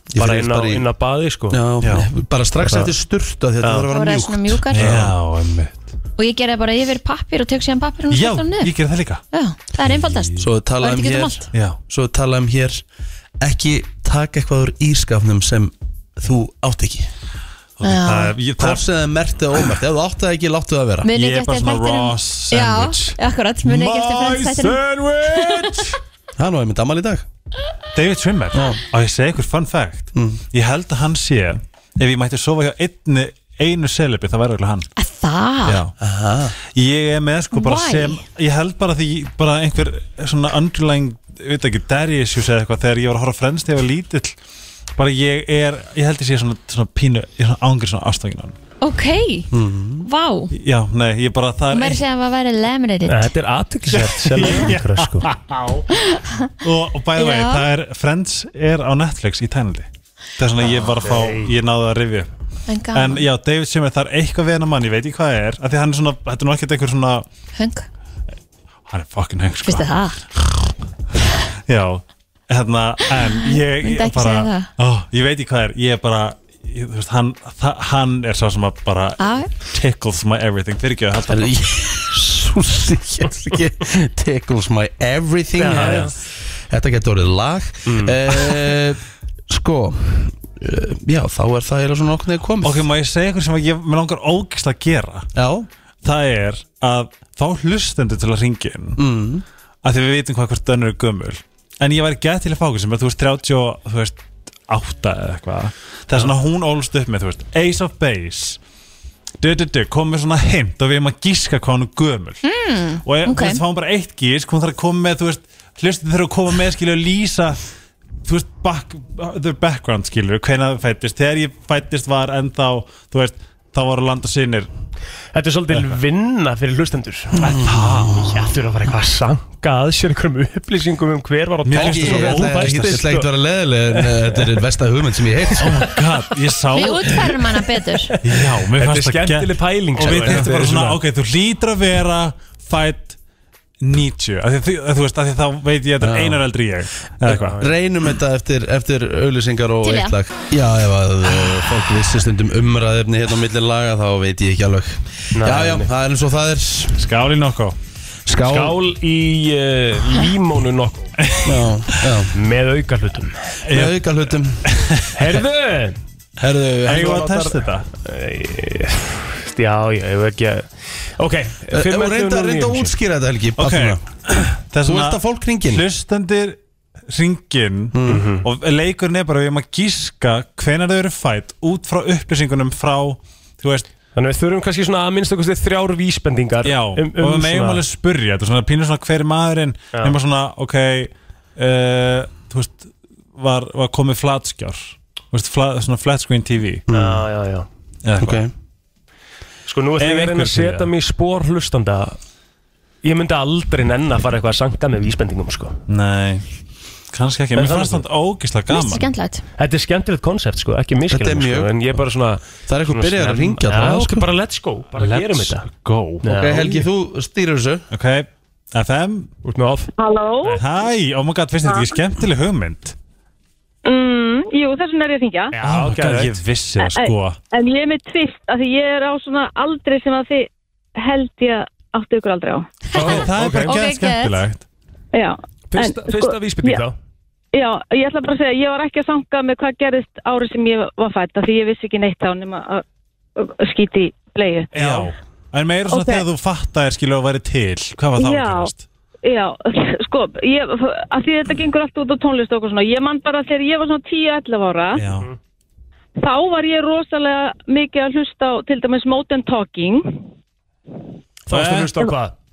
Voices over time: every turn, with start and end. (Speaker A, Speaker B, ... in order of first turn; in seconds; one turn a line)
Speaker A: 0.1-0.9
Speaker B: 0.2-1.6
Speaker A: 1.5-5.1
Speaker C: 1.8-2.1
Speaker B: 3.6-3.9
Speaker D: 3.9-4.8
Speaker C: 4.7-5.9
Speaker D: 6.2-8.7
Speaker C: 8.1-9.2
Speaker D: 9.3-11.5
Speaker C: 9.8-10.5
Speaker A: 10.4-12.8
Speaker C: 11.5-11.8
Speaker A: 13.4-17.1
Speaker C: 17.8-18.8
Speaker D: 17.8-18.4
Speaker A: 18.6-21.1
Speaker D: 21.0-25.9
Speaker C: 21.1-26.0
Speaker A: 26.4-27.2
Speaker C: 27.9-34.9
Speaker A: 28.6-28.8
Speaker A: 30.1-30.4
Speaker D: 35.0-35.8
Speaker C: 35.6-35.9
Speaker A: 36.0-36.5
Speaker C: 36.7-44.4
Speaker D: 37.5-38.2
Speaker C: 45.0-48.5
Speaker D: 48.8-49.5
Speaker A: 49.5-50.1
Speaker D: 50.0-50.5
Speaker C: 50.5-52.0
Speaker D: 51.7-53.3
Speaker B: 53.1-55.3
Speaker C: 53.9-56.0
Speaker D: 56.0-56.5
Speaker C: 56.6-59.9
Speaker D: 57.2-57.6
Speaker C: 60.4-62.3
Speaker B: 60.7-61.5
Speaker D: 62.7-63.3
Speaker C: 62.9-67.3
Speaker D: 67.6-67.9
Speaker C: 68.9-69.9
Speaker D: 69.7-70.2
Speaker C: 71.7-81.5
Speaker D: 73.2-74.7
Speaker D: 79.2-79.5
Speaker A: 81.3-86.1
Speaker B: 85.6-86.1
Speaker A: 86.7-92.8
Speaker B: 87.9-88.2
Speaker C: 92.6-95.3
Speaker A: 95.4-95.7
Speaker C: 96.0-99.0
Speaker A: 99.0-99.4
Speaker C: 99.8-108.6
Speaker C: 109.4-112.4
Speaker D: 112.4-113.6
Speaker C: 113.0-117.6
Speaker C: 118.2-124.7
Speaker B: 125.3-127.4
Speaker C: 127.4-128.3
Speaker A: 127.4-128.4
Speaker B: 128.2-133.3
Speaker C: 131.7-133.1
Speaker A: 131.7-135.9
Speaker B: 133.9-134.5
Speaker C: 135.6-137.3
Speaker D: 136.7-138.2
Speaker C: 138.2-143.2
Speaker B: 138.3-141.0
Speaker A: 140.2-140.5
Speaker C: 143.8-147.6
Speaker A: 146.0-146.4
Speaker A: 147.3-157.1
Speaker B: 147.3-147.7
Speaker D: 149.8-150.2
Speaker B: 155.3-155.9
Speaker C: 157.0-157.8
Speaker A: 158.3-158.8
Speaker B: 158.4-161.1
Speaker C: 161.2-161.6
Speaker A: 161.4-162.3
Speaker B: 162.3-163.6
Speaker C: 163.7-164.0
Speaker A: 163.7-164.6
Speaker C: 164.7-165.1
Speaker B: 165.2-166.0
Speaker A: 166.4-167.6
Speaker C: 166.9-167.9
Speaker B: 168.0-172.9
Speaker A: 171.7-174.0
Speaker C: 173.6-183.9
Speaker A: 174.8-175.8
Speaker A: 177.9-178.2
Speaker B: 178.1-178.5
Speaker B: 184.2-187.8
Speaker C: 186.6-196.8
Speaker A: 196.9-197.2
Speaker B: 196.9-197.7
Speaker C: 198.1-198.4
Speaker A: 198.2-198.5
Speaker B: 199.7-202.2
Speaker C: 200.0-200.9
Speaker B: 203.0-205.8
Speaker C: 205.9-206.4
Speaker C: 207.1-209.1
Speaker B: 207.6-208.1
Speaker D: 208.7-209.4
Speaker B: 209.6-215.7
Speaker A: 211.1-211.7
Speaker A: 212.7-214.3
Speaker C: 215.0-216.2
Speaker B: 216.2-216.8
Speaker A: 216.3-217.9
Speaker C: 217.9-219.3
Speaker B: 219.4-219.9
Speaker E: 220.0-220.6
Speaker C: 220.5-222.9
Speaker E: 221.7-221.9
Speaker E: 223.9-225.5
Speaker B: 225.5-226.4
Speaker C: 225.6-227.4
Speaker E: 226.8-232.8
Speaker C: 232.9-234.6
Speaker B: 232.9-233.7
Speaker D: 233.7-234.4
Speaker E: 235.1-236.8
Speaker B: 235.7-236.9
Speaker E: 237.5-242.8
Speaker E: 243.4-244.7
Speaker C: 244.7-248.8
Speaker B: 244.7-245.1
Speaker E: 245.9-246.2
Speaker E: 248.2-248.7
Speaker E: 249.2-255.0
Speaker C: 254.9-255.3
Speaker E: 256.2-260.2
Speaker B: 261.5-262.3
Speaker C: 261.5-262.1